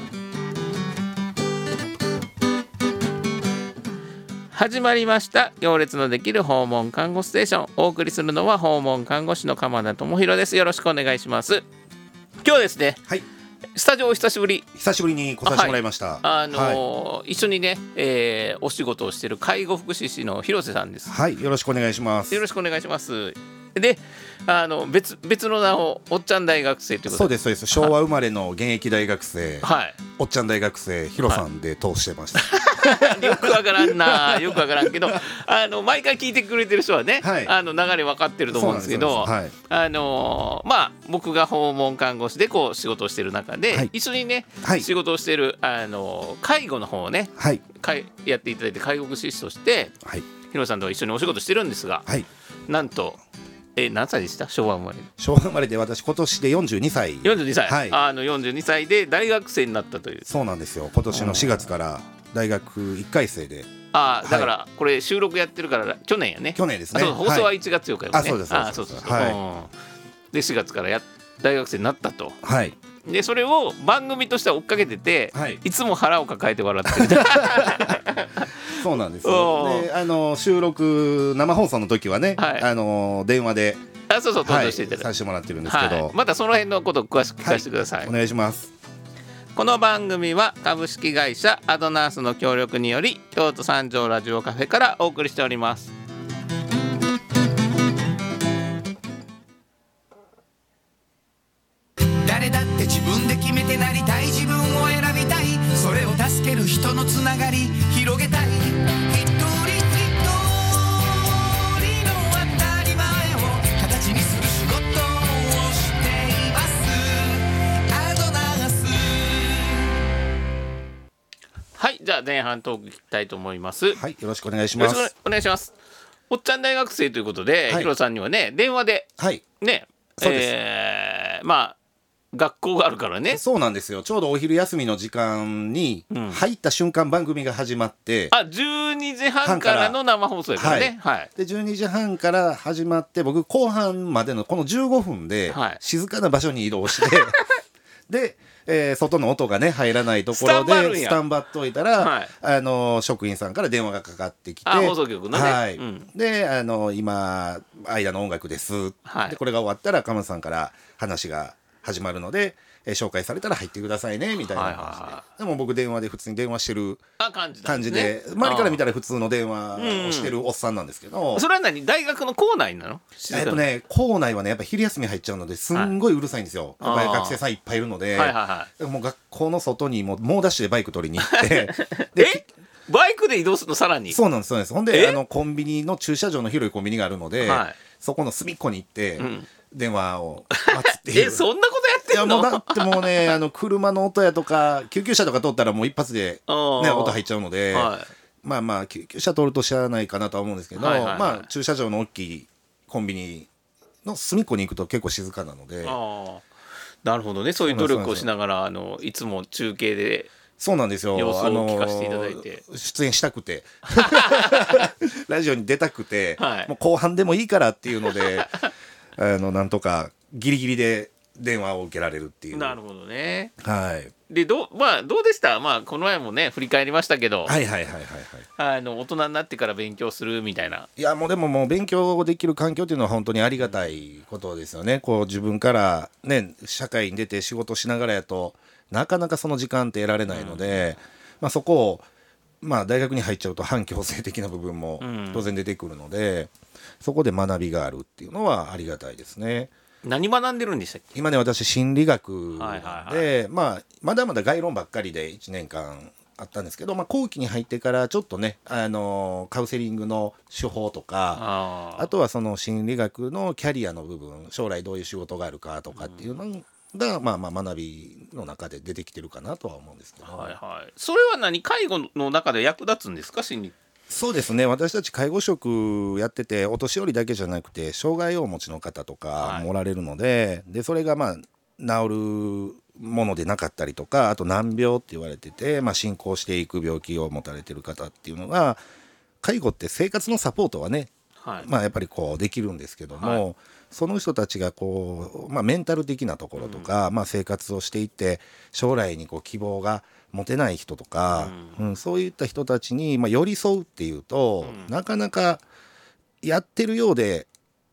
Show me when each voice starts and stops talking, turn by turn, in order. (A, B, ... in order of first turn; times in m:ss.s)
0:04.5-0:11.7 A
0:12.4-0:13.0 A
0:13.8-0:14.7 A
0:14.8-0:16.8 B
0:15.4-0:21.1 A
0:21.1-0:22.4 B
0:22.3-0:27.9 A
0:27.1-0:29.7 B
0:29.6-0:30.0 A
0:30.2-0:35.2 B
0:32.4-0:50.0 A
0:37.2-0:37.5 B
0:38.5-0:39.5 B
0:44.6-0:44.9 B
0:47.4-0:47.6 B
0:50.5-0:52.1 A
0:52.7-0:53.2 A
0:53.8-0:55.1 A
0:55.2-0:58.0 B
0:57.2-1:00.3 A
1:00.3-1:04.5 B
1:01.1-1:01.7 A
1:03.9-1:09.7 A
1:06.6-1:07.5 B
1:08.1-1:09.4 B
1:10.3-1:12.4 A
1:12.4-1:12.8 B
1:13.0-1:19.9 A
1:15.3-1:15.6 B
1:16.9-1:18.0 B
1:18.7-1:23.9 B
1:22.4-1:22.7 A
1:24.1-1:25.1 A
1:24.4-1:26.1 B
1:25.6-1:28.1 A
1:27.4-1:28.7 B
1:29.6-1:35.9 A
1:42.0-1:59.9 C
2:01.8-2:04.0 A
2:03.9-2:05.1 B
2:04.8-2:05.7 A
2:06.3-2:11.8 A
2:09.2-2:09.4 B
2:10.2-2:10.5 B
2:12.3-2:13.4 A
2:13.3-2:18.3 B
2:16.1-2:16.4 A
2:18.3-2:21.3 A
2:19.4-2:20.0 B
2:20.6-2:27.4 B
2:25.5-2:25.8 A
2:27.0-2:27.4 A
2:28.1-2:47.0 B
2:30.3-2:31.2 A
2:32.0-2:32.3 A
2:34.7-2:36.1 A
2:39.1-2:39.4 A
2:44.4-2:45.2 A
2:47.2-2:48.8 A
2:47.6-2:51.5 B
2:49.8-2:50.4 A
2:51.4-2:53.6 A
2:53.3-3:02.4 B
2:56.8-2:57.4 A
2:58.1-2:58.7 A
3:01.2-3:04.2 A
3:04.1-3:11.5 B
3:04.9-3:05.2 A
3:07.4-3:07.8 A
3:09.2-3:09.5 A
3:10.5-3:13.4 A
3:12.1-3:17.9 B
3:16.5-3:17.2 A
3:17.7-3:18.1 A
3:18.4-3:23.5 B
3:20.8-3:21.5 A
3:24.0-3:26.0 B
3:25.8-3:26.5 A
3:27.0-3:30.3 A
3:27.6-3:28.3 B
3:30.6-3:38.6 B
3:31.1-3:32.6 A
3:33.9-3:34.9 A
3:36.4-3:36.7 A
3:38.1-3:38.7 A
3:39.2-3:42.8 B
3:42.5-3:43.5 A
3:43.6-3:44.1 B
3:44.3-3:47.6 A
3:47.5-3:48.4 B
3:48.6-3:50.9 A
3:51.0-4:02.1 B
4:00.3-4:00.9 A
4:02.6-4:09.7 B
4:05.0-4:05.5 A
4:10.0-4:11.1 A
4:11.2-4:30.6 B
4:12.5-4:13.3 A
4:21.4-4:22.1 A
4:26.0-4:26.3 A
4:30.2-4:33.8 A
4:34.1-4:48.8 B
4:39.4-4:39.7 A
4:49.4-5:05.6 B
4:51.4-4:51.7 A
4:53.2-4:53.4 A
4:56.6-4:56.9 A
5:01.4-5:01.8 A
5:04.6-5:04.9 A
5:06.4-5:07.5 B